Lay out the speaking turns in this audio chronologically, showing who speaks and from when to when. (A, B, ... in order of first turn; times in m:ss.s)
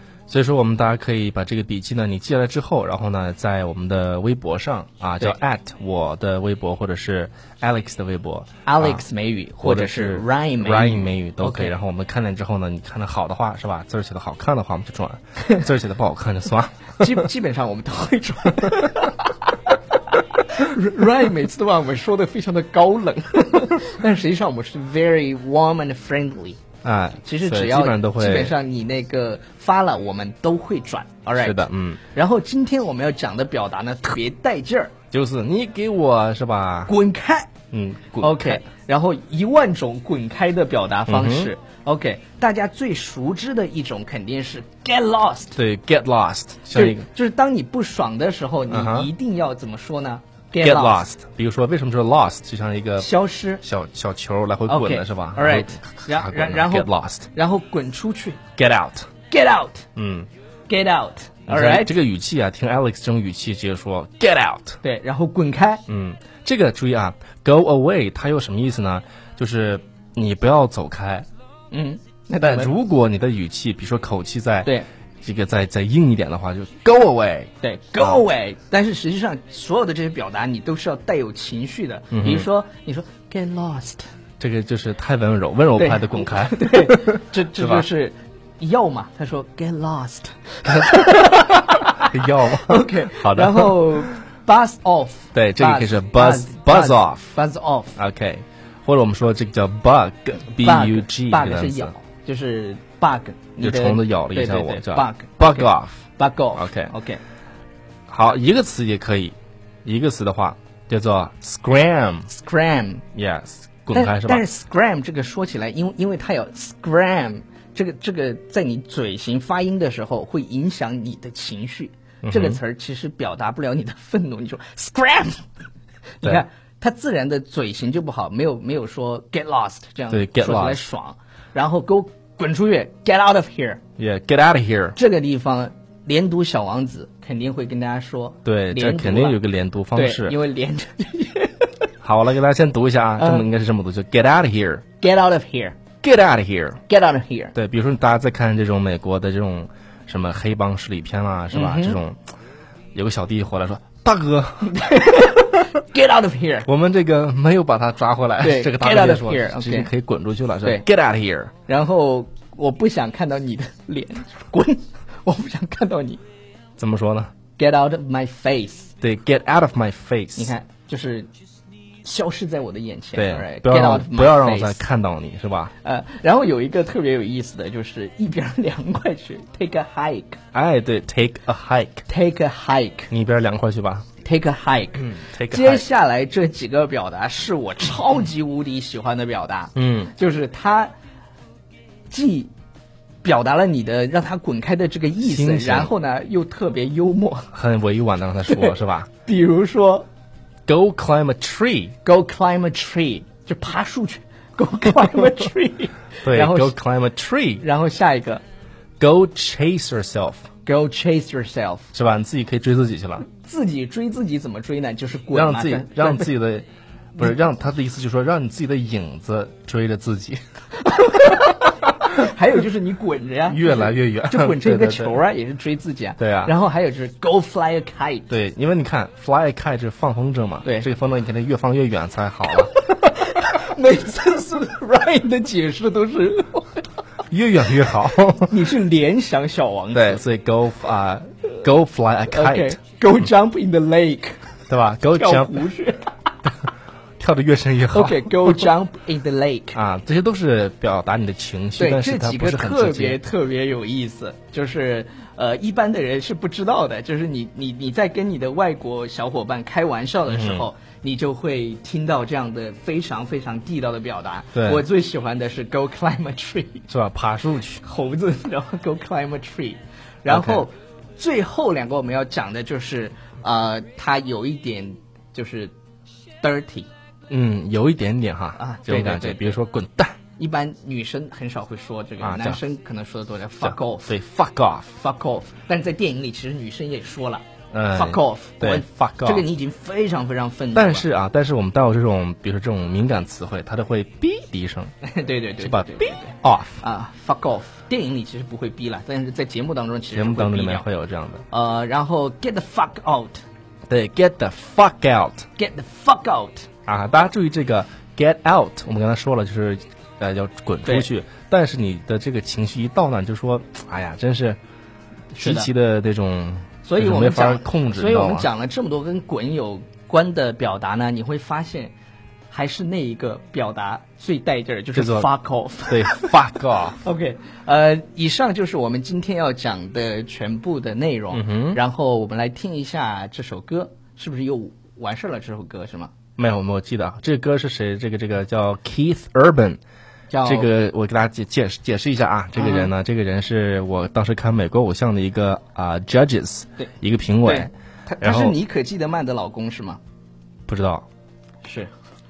0:00.3-0:09.0 A
0:08.6-0:11.7 B
0:09.6-0:17.3 A
0:17.0-0:26.6 B
0:26.8-0:28.5 A
0:27.2-0:34.9 B
0:31.4-0:32.0 A
0:35.1-0:36.9 A
0:36.9-0:37.5 B
0:37.7-0:38.6 A
0:38.2-0:45.6 B
0:41.1-0:41.5 A
0:45.6-0:47.1 A
0:46.7-0:51.0 B
0:48.7-0:49.1 A
0:50.6-0:53.1 A
0:53.0-0:53.6 B
0:53.6-0:57.3 A
0:54.7-0:58.4 B
0:58.6-0:59.1 A
0:59.3-0:59.8 B
1:00.0-1:00.3 A
1:00.7-1:02.0 B
1:01.5-1:04.8 A
1:04.8-1:05.8 B
1:05.9-1:11.3 A
1:11.7-1:12.7 B
1:12.4-1:18.2 A
1:17.6-1:24.0 B
1:22.1-1:22.5 A
1:24.4-1:27.9 A
1:25.8-1:38.0 B
1:30.6-1:34.0 A
1:35.3-1:37.4 A
1:38.0-1:41.9 A
1:40.6-1:47.2 B
1:43.6-1:46.0 A
1:46.5-1:46.9 A
1:48.1-1:52.3 A
1:52.3-1:53.0 B
1:53.1-1:54.4 A
1:53.9-2:05.4 B
2:02.2-2:02.6 A
2:06.2-2:13.8 B
2:10.1-2:10.8 A
2:14.0-2:15.0 A
2:15.0-2:19.4 B
2:18.4-2:20.4 A
2:19.9-2:21.7 B
2:22.0-2:24.8 A
2:23.2-2:23.5 B
2:25.0-2:25.8 B
2:26.0-2:26.8 A
2:26.9-2:27.5 B
2:27.5-2:32.2 A
2:31.5-2:32.0 B
2:32.9-2:35.2 A
2:34.6-2:36.7 B
2:36.6-2:41.5 A
2:38.4-2:39.9 B
2:41.6-2:46.2 B
2:46.8-2:47.3 A
2:47.6-2:48.9 B
2:49.0-2:50.5 A
2:50.4-2:51.3 B
2:52.0-2:54.8 B
2:53.1-2:55.7 A
2:55.8-3:00.4 B
3:00.5-3:02.0 A
3:02.1-3:03.1 B
3:03.1-3:04.1 A
3:04.2-3:10.9 B
3:05.0-3:05.8 A
3:09.7-3:10.1 A
3:12.1-3:12.5 B
3:13.2-3:17.5 B
3:15.2-3:15.9 A
3:17.5-3:19.1 A
3:18.5-3:20.0 B
3:20.6-3:21.9 A
3:22.0-3:26.7 B
3:26.2-3:27.6 A
3:27.6-3:28.4 B
3:29.0-3:30.5 A
3:30.6-3:31.9 B
3:31.9-3:33.2 A
3:33.3-3:36.3 B
3:35.3-3:40.4 A
3:40.8-3:48.3 B
3:43.5-3:45.2 A
3:46.2-3:46.5 A
3:48.3-3:52.7 A
3:52.6-3:56.9 B
3:57.3-3:58.6 A
3:58.5-4:00.2 B
3:59.9-4:02.8 A
4:02.3-4:04.5 B
4:04.7-4:05.7 A
4:05.1-4:06.2 B
4:07.2-4:08.7 A
4:07.9-4:09.8 B
4:09.7-4:13.2 A
4:11.8-4:26.9 B
4:20.3-4:20.6 A
4:24.6-4:24.8 A
4:26.9-4:27.8 A
4:27.8-4:35.7 B
4:30.3-4:30.6 A
4:36.4-4:36.9 B
4:37.3-4:40.2 A
4:38.6-4:39.6 B
4:40.4-4:44.1 B
4:42.2-4:42.6 A
4:43.6-4:45.0 A
4:45.0-4:51.0 B
4:47.7-4:49.4 A
4:50.7-4:54.9 A
4:55.0-5:00.8 B
4:55.6-4:56.8 A
5:00.1-5:01.4 A
5:01.5-5:03.4 B
5:03.9-5:05.4 A
5:05.6-5:06.7 B
5:06.8-5:14.6 A
5:10.8-5:11.1 B
5:15.3-5:15.7 B
5:15.4-5:18.5 A
5:16.8-5:21.9 B
5:22.5-5:26.3 B
5:24.9-5:25.3 A
5:25.9-5:27.0 A
5:27.0-5:36.1 B
5:31.3-5:31.8 A
5:36.4-5:39.8 A
5:40.3-5:40.7 B
5:40.4-5:48.6 A
5:42.6-5:42.9 B
5:46.8-5:50.0 B
5:50.7-5:51.0 A
5:51.6-5:51.9 B